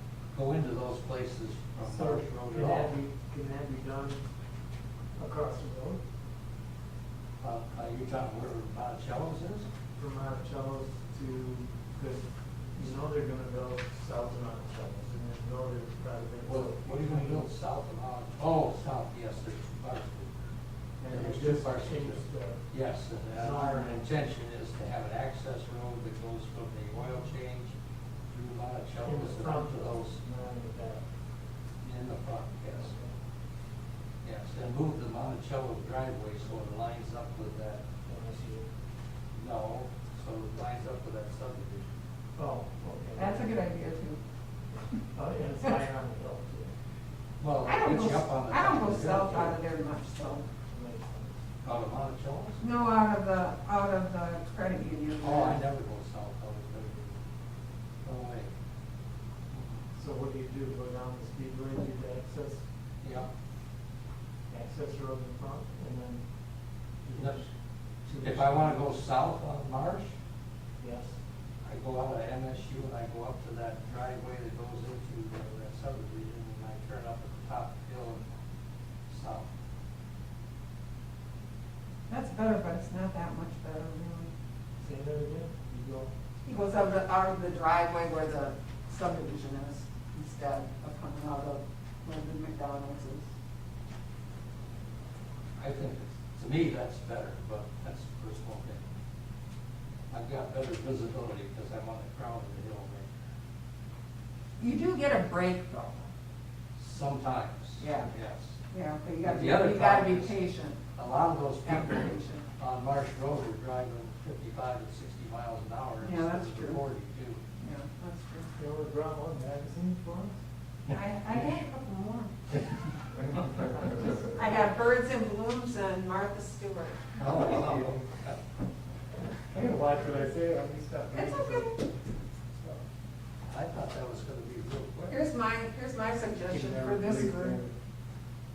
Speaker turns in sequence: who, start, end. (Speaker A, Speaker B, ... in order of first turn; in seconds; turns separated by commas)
Speaker A: 0.3-3.0, Speaker B: 1.8-4.2, Speaker B: 5.2-6.0, Speaker A: 7.4-9.7, Speaker B: 10.0-17.5, Speaker A: 16.4-20.4, Speaker B: 21.0-22.6, Speaker A: 21.1-27.7, Speaker B: 23.3-24.1, Speaker A: 28.3-30.2, Speaker B: 29.1-31.1, Speaker A: 31.8-33.0, Speaker B: 32.7-33.2, Speaker A: 34.2-37.8, Speaker B: 38.0-38.7, Speaker A: 39.3-41.9, Speaker B: 42.4-43.5, Speaker C: 43.2-44.2, Speaker B: 44.7-46.7, Speaker A: 47.4-49.5, Speaker C: 47.6-50.5, Speaker B: 48.9-49.6, Speaker B: 50.5-51.4, Speaker A: 51.6-52.6, Speaker C: 52.6-55.6, Speaker A: 55.2-57.1, Speaker A: 58.0-58.5, Speaker A: 59.5-59.8, Speaker B: 60.0-62.6, Speaker A: 63.0-63.3, Speaker B: 64.5-66.2, Speaker B: 67.0-67.5, Speaker A: 67.2-67.5, Speaker B: 68.0-68.8, Speaker A: 68.2-70.1, Speaker B: 70.8-71.1, Speaker A: 71.6-78.2, Speaker A: 79.1-79.5, Speaker C: 82.1-84.3, Speaker B: 84.8-86.1, Speaker C: 86.5-93.3, Speaker A: 95.6-98.8, Speaker A: 100.1-103.1, Speaker C: 104.6-106.1, Speaker A: 106.8-108.5, Speaker C: 107.8-108.1, Speaker C: 108.7-110.8, Speaker A: 109.2-110.4, Speaker A: 110.9-117.4, Speaker C: 111.6-112.5, Speaker C: 116.0-116.8, Speaker C: 117.6-118.5, Speaker B: 118.6-120.3, Speaker A: 120.9-121.5, Speaker C: 120.9-122.3, Speaker C: 123.8-127.6, Speaker A: 127.2-128.4, Speaker B: 127.2-128.1, Speaker B: 129.5-131.8, Speaker C: 131.1-131.8, Speaker B: 132.5-132.8, Speaker A: 133.4-135.2, Speaker C: 135.1-137.6, Speaker B: 136.5-137.8